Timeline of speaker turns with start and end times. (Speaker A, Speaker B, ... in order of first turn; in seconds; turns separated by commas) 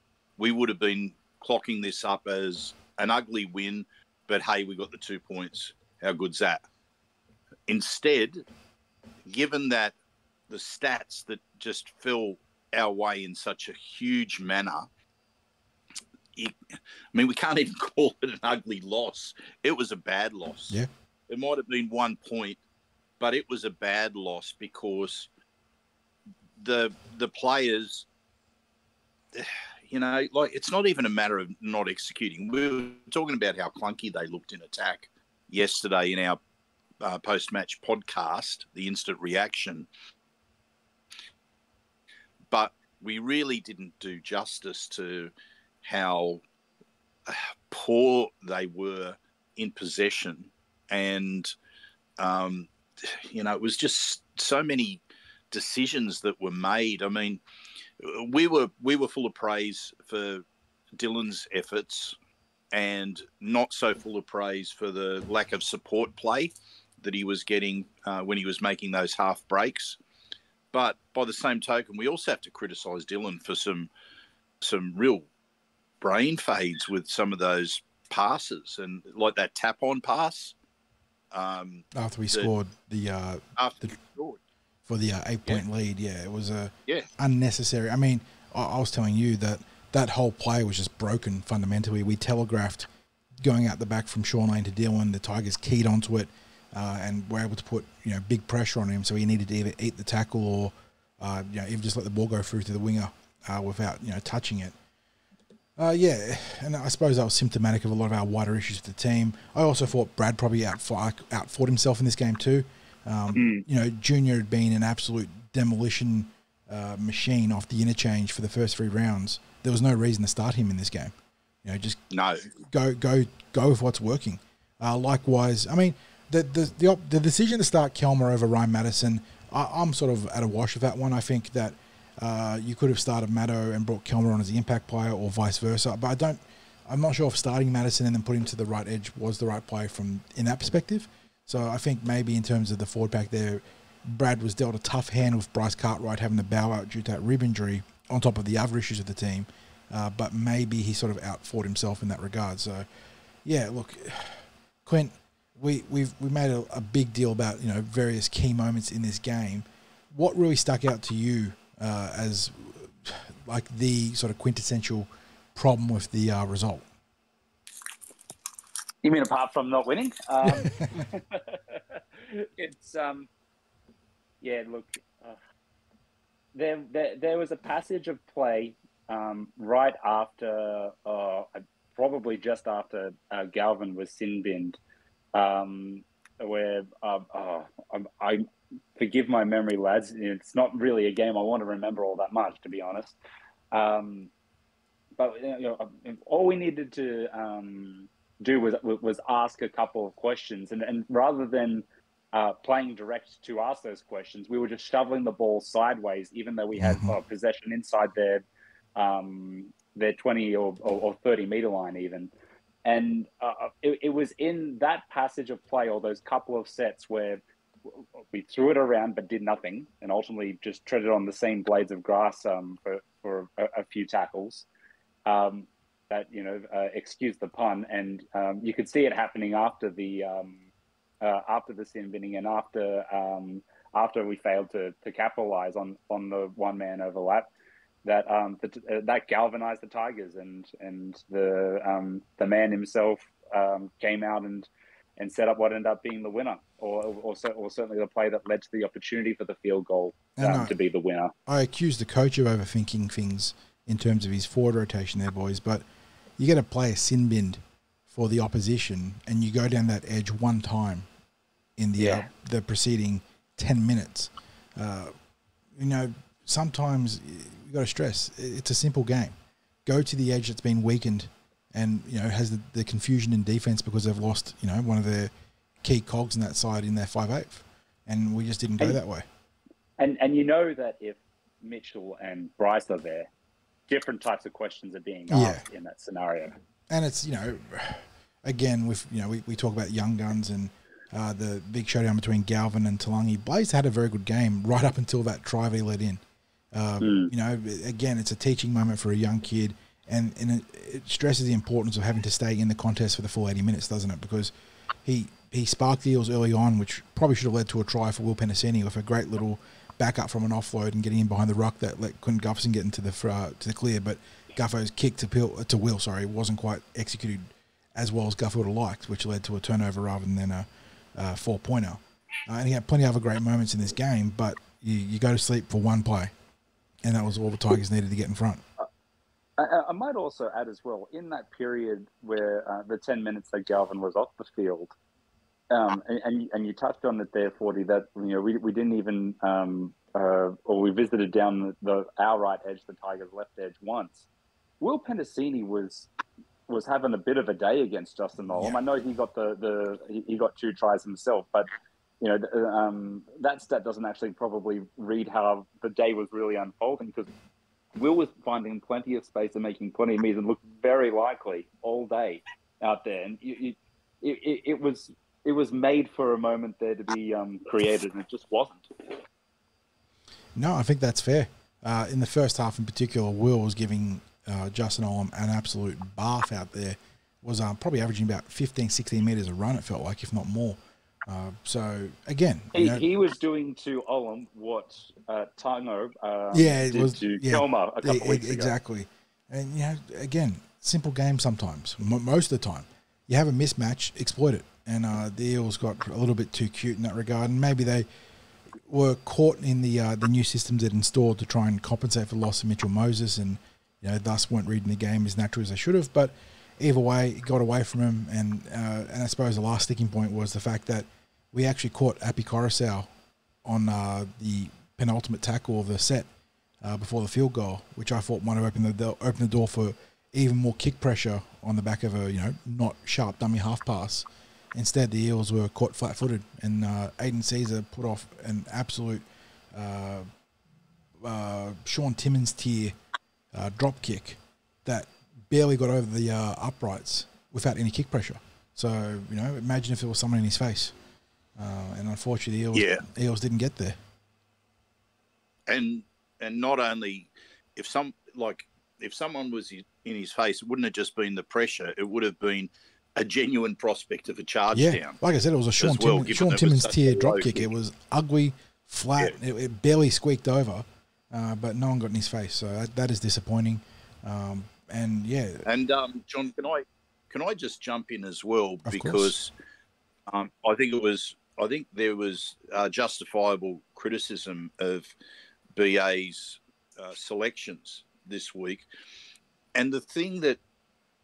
Speaker A: 0.4-6.7, Speaker A: 7.7-8.4, Speaker A: 9.2-9.9, Speaker A: 10.5-14.9, Speaker A: 17.1-22.6, Speaker A: 23.2-25.3, Speaker A: 26.6-28.1, Speaker A: 29.3-36.4, Speaker A: 37.0-39.9, Speaker A: 42.5-46.4, Speaker A: 47.3-51.5, Speaker A: 52.2-57.4, Speaker A: 58.0-60.4, Speaker A: 61.0-62.1, Speaker A: 62.7-70.0, Speaker A: 70.7-73.9, Speaker A: 74.6-75.3, Speaker A: 76.0-80.5, Speaker A: 81.3-82.5, Speaker B: 81.9-83.9, Speaker A: 83.6-84.4, Speaker B: 84.9-92.9, Speaker B: 93.4-104.7, Speaker B: 105.8-121.1, Speaker C: 113.3-113.6, Speaker B: 121.6-122.0, Speaker A: 122.1-122.5, Speaker B: 122.6-152.9, Speaker B: 153.4-166.8, Speaker C: 169.0-173.3, Speaker B: 170.4-171.1, Speaker C: 174.4-175.4, Speaker C: 176.5-184.8, Speaker C: 185.3-188.4, Speaker C: 189.0-193.2, Speaker C: 193.7-194.3, Speaker C: 195.2-208.4, Speaker B: 206.8-207.2, Speaker C: 208.9-212.3, Speaker C: 212.8-224.7, Speaker C: 225.2-230.6, Speaker C: 231.2-237.5, Speaker C: 238.0-251.3, Speaker B: 250.4-250.7, Speaker B: 251.5-255.8, Speaker B: 256.4-261.1, Speaker B: 261.8-265.1, Speaker C: 262.0-262.3, Speaker B: 265.7-275.3, Speaker B: 275.8-279.2, Speaker C: 280.0-283.3, Speaker C: 283.9-286.6, Speaker B: 285.3-285.6, Speaker B: 286.9-296.2, Speaker B: 296.7-304.5, Speaker C: 297.0-297.3, Speaker B: 305.0-326.3, Speaker B: 327.0-328.6, Speaker C: 329.6-334.9, Speaker C: 335.7-344.3, Speaker C: 344.8-346.1, Speaker C: 346.7-351.7, Speaker C: 352.2-357.3, Speaker C: 358.0-368.9, Speaker B: 370.6-383.0, Speaker C: 382.7-388.7, Speaker B: 386.5-398.1, Speaker B: 398.9-413.1, Speaker B: 413.6-416.3, Speaker B: 416.8-430.3, Speaker B: 431.2-432.9, Speaker B: 433.5-440.9, Speaker B: 441.6-444.0, Speaker A: 442.7-443.0, Speaker A: 445.7-455.1, Speaker B: 454.7-465.7, Speaker A: 455.8-457.7, Speaker A: 465.6-469.5, Speaker B: 468.9-469.3, Speaker A: 470.3-475.1, Speaker A: 475.7-478.9, Speaker A: 479.7-480.6